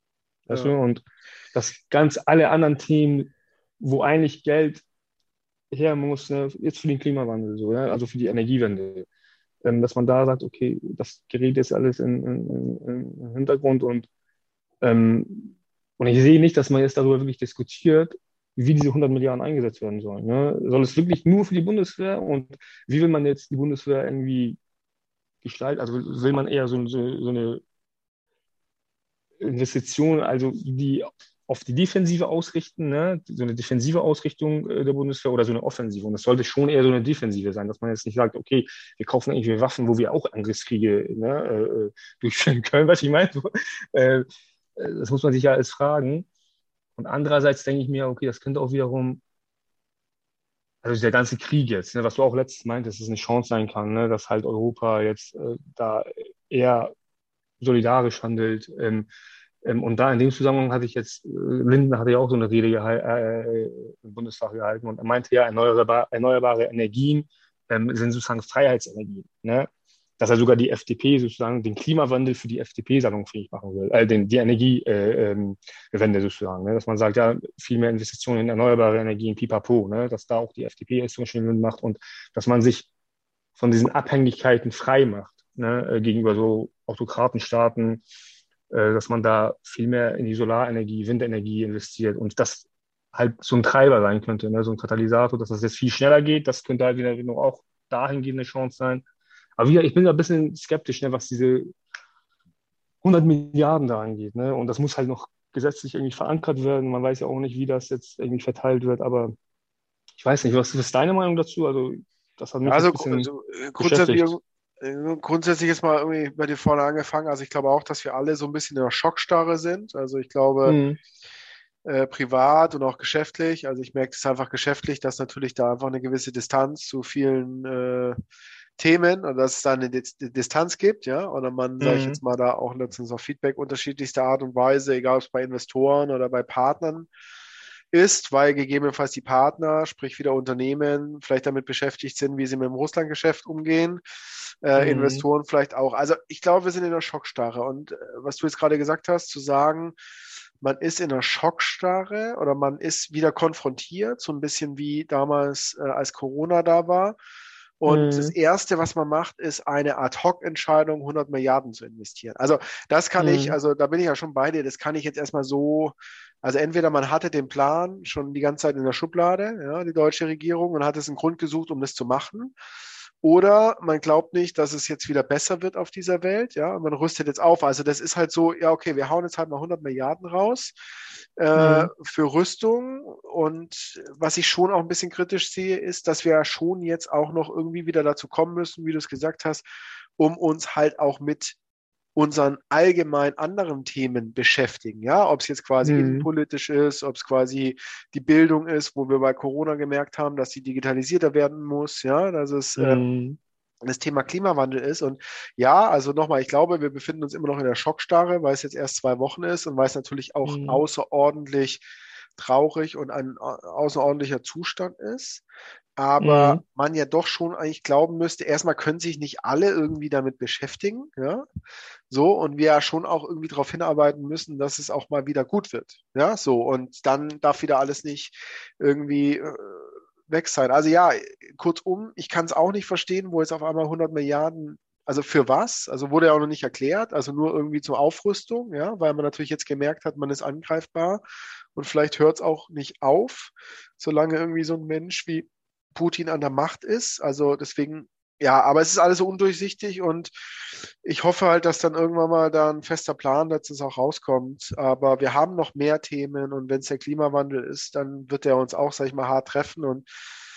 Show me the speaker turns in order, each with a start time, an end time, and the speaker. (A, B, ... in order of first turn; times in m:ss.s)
0:00.5-0:00.7 A
0:00.5-0:04.8 B
0:05.7-0:09.1 B
0:09.6-0:14.1 B
0:14.8-0:24.6 B
0:25.4-0:27.6 B
0:29.4-0:46.3 B
0:47.0-0:49.2 B
0:50.8-0:56.9 B
0:57.6-0:59.1 B
0:59.6-1:22.9 B
1:23.6-1:28.0 B
1:28.7-1:39.1 B
1:39.6-1:41.7 B
1:43.0-1:49.3 B
1:50.2-1:54.4 B
1:52.7-2:00.8 A
2:00.7-2:01.0 B
2:01.8-2:08.2 A
2:08.8-2:17.1 A
2:11.8-2:12.2 B
2:17.9-2:24.0 A
2:24.6-2:30.0 A
2:24.8-2:25.3 B
2:30.6-2:37.2 A
2:37.8-2:52.5 A
2:37.9-2:38.3 B
2:43.2-2:43.6 B
2:53.2-3:00.8 A
3:01.4-3:09.6 A
3:01.6-3:01.9 B
3:10.2-3:11.6 A
3:12.2-3:23.0 A
3:15.8-3:16.3 B
3:22.8-3:23.4 B
3:23.8-3:31.8 A
3:30.4-3:30.8 B
3:32.4-3:35.4 A
3:36.0-3:41.4 A
3:36.2-3:36.6 B
3:42.1-4:01.2 A
4:01.8-4:10.3 A
4:11.0-4:20.1 A